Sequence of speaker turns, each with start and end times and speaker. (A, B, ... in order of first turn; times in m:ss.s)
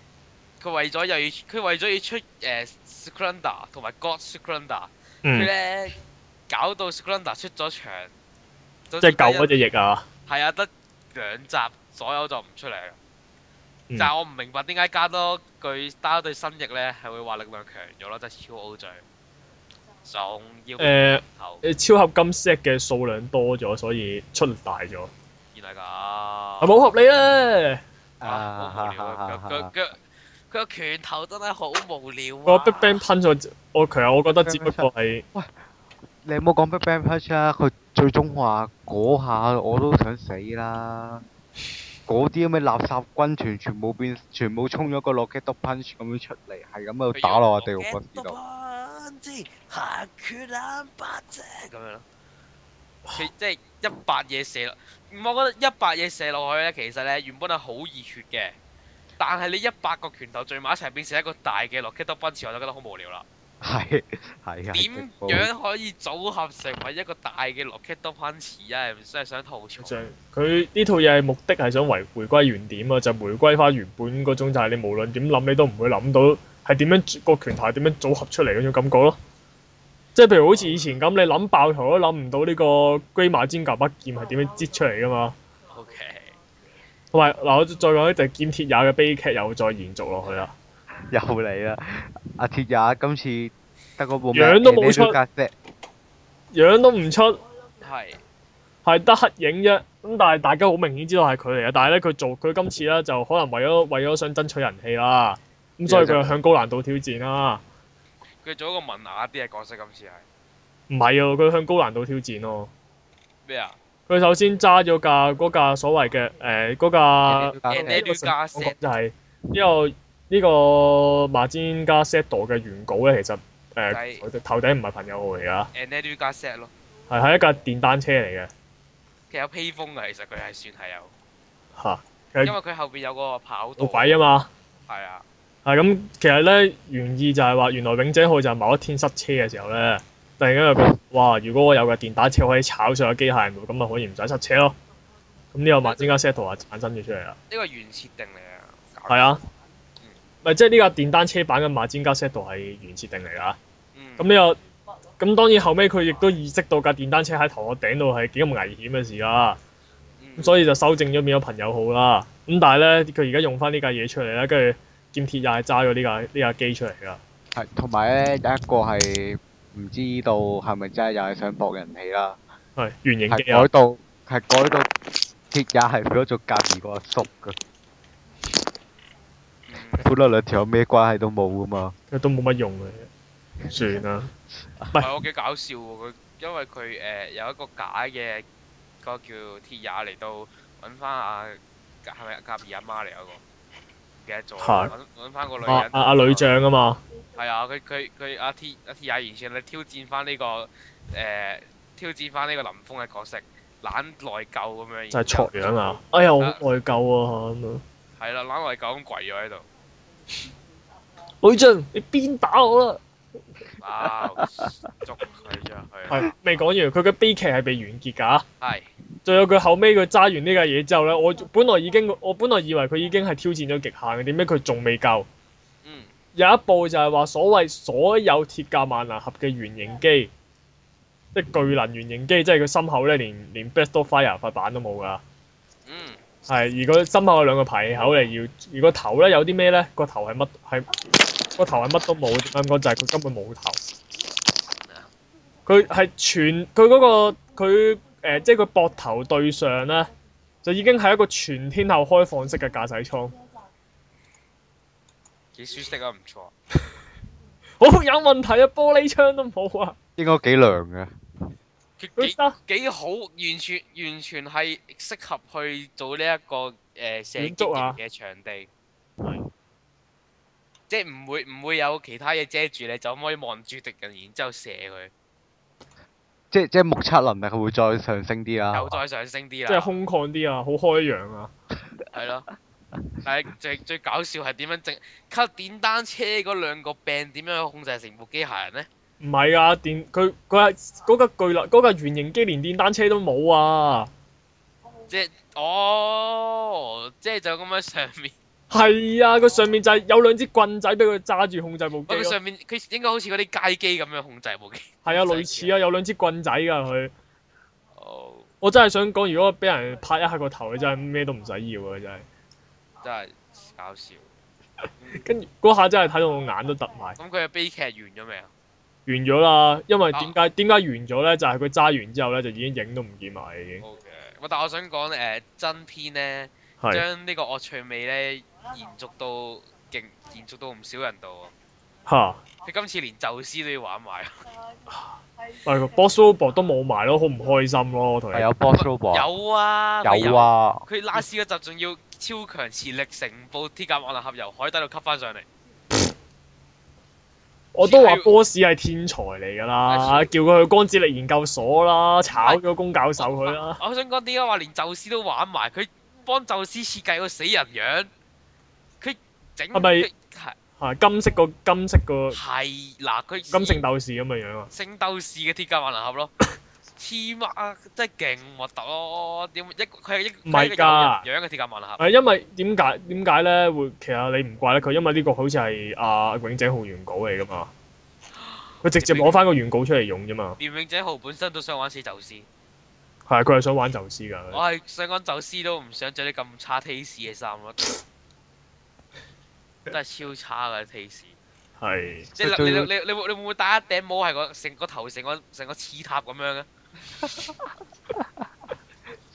0:00.6-0:08.1 A
0:05.2-0:05.5 B
0:08.9-0:09.5 A
0:09.0-0:10.0 B
0:10.3-0:13.0 A
0:14.0-0:19.0 A
0:20.0-0:21.6 A
0:20.8-0:25.1 B
0:25.5-0:26.9 A
0:26.6-0:27.8 B
0:28.2-0:29.7 C
0:28.2-0:30.0 A
0:30.5-0:33.0 A
0:32.4-0:35.2 B
0:34.3-0:35.5 C
0:36.2-0:41.2 C
0:42.1-0:48.4 C
0:47.1-0:52.0 A
0:53.1-0:58.5 A
0:59.2-1:03.2 A
1:03.6-1:05.5 C
1:04.7-1:10.0 A
1:09.8-1:19.2 B
1:20.1-1:25.4 B
1:25.7-1:26.3 A
1:27.1-1:30.5 B
1:31.0-1:35.5 C
1:34.3-1:35.2 B
1:36.5-1:37.4 B
1:37.8-1:38.2 A
1:38.8-1:47.6 B
1:45.9-1:46.3 C
1:48.4-1:50.2 A
1:50.9-1:52.7 B
1:53.4-1:53.8 A
1:54.1-2:05.7 B
1:57.3-1:58.0 C
1:57.7-1:58.8 A
2:03.9-2:04.2 A
2:05.7-2:06.7 A
2:07.1-2:08.5 B
2:09.3-2:11.1 A
2:11.8-2:12.5 B
2:12.4-2:14.2 A
2:13.8-2:14.5 B
2:14.9-2:15.2 A
2:15.6-2:24.8 B
2:25.5-2:27.4 B
2:25.8-2:26.2 A
2:27.5-2:29.4 A
2:29.1-2:29.4 B
2:30.4-2:33.6 B
2:33.9-2:34.3 A
2:34.2-2:34.6 B
2:35.2-2:39.6 B
2:40.2-2:40.6 A
2:40.4-2:47.2 B
2:47.5-2:52.4 C
2:52.8-2:53.7 B
2:53.3-2:54.9 C
2:55.5-2:57.6 C
2:59.7-3:00.1 A
3:00.0-3:01.9 C
3:02.1-3:03.1 B
3:03.7-3:04.3 B
3:05.0-3:08.4 A
3:09.0-3:13.4 A
3:14.2-3:16.5 A
3:14.6-3:14.9 B
3:15.6-3:17.0 B
3:17.4-3:25.8 A
3:25.1-3:27.8 B
3:28.2-3:29.6 A
3:31.4-3:33.0 B
3:33.8-3:36.2 A
3:34.2-3:34.7 C
3:36.1-3:38.4 B
3:38.6-3:38.9 A
3:39.2-3:45.3 B
3:45.8-3:46.1 A
3:46.4-3:50.3 B
3:51.3-3:55.2 B
3:55.8-3:56.2 A
3:56.5-4:00.9 B
4:01.6-4:03.8 B
4:05.7-4:10.1 B
4:10.6-4:13.3 B
4:15.6-4:16.5 A
4:17.8-4:20.0 B
4:20.2-4:21.1 C
4:22.0-4:28.7 A
4:22.2-4:22.6 B
4:27.4-4:28.0 B
4:30.9-4:35.1 A
4:36.5-4:39.0 C
4:38.7-4:39.9 A
4:39.7-4:41.5 B
4:42.1-4:42.5 A
4:43.2-4:48.9 A
4:49.2-4:54.1 B
4:55.1-4:58.3 A
4:58.7-5:02.4 B
5:02.1-5:05.8 A
5:05.0-5:07.1 B
5:07.9-5:08.5 A
5:08.6-5:12.2 B
5:13.0-5:14.2 A
5:15.0-5:15.2 A
5:15.1-5:17.2 B
5:17.2-5:18.5 A
5:19.0-5:23.8 B
5:23.8-5:31.5 A
5:32.1-5:32.4 B
5:32.6-5:34.4 A
5:35.6-5:38.5 B
5:38.3-5:39.3 C
5:38.7-5:45.4 A
5:40.0-5:40.8 C
5:47.7-5:53.8 B
5:47.8-5:48.4 A
5:49.9-5:50.3 A
5:52.3-5:52.6 A
5:53.2-5:58.1 A
5:59.0-6:00.6 A
5:59.7-6:00.1 B
6:00.8-6:02.4 B
6:02.3-6:03.8 A
6:03.5-6:04.7 B
6:04.7-6:06.3 A
6:07.0-6:12.0 A
6:10.4-6:11.2 B
6:12.0-6:17.7 B
6:18.4-6:19.4 A
6:18.8-6:20.6 B
6:20.6-6:22.5 A
6:23.3-6:24.6 B
6:24.5-6:28.0 A
6:29.9-6:31.4 A
6:31.8-6:32.3 B
6:32.3-6:36.7 A
6:32.4-6:32.9 C
6:37.2-6:38.4 C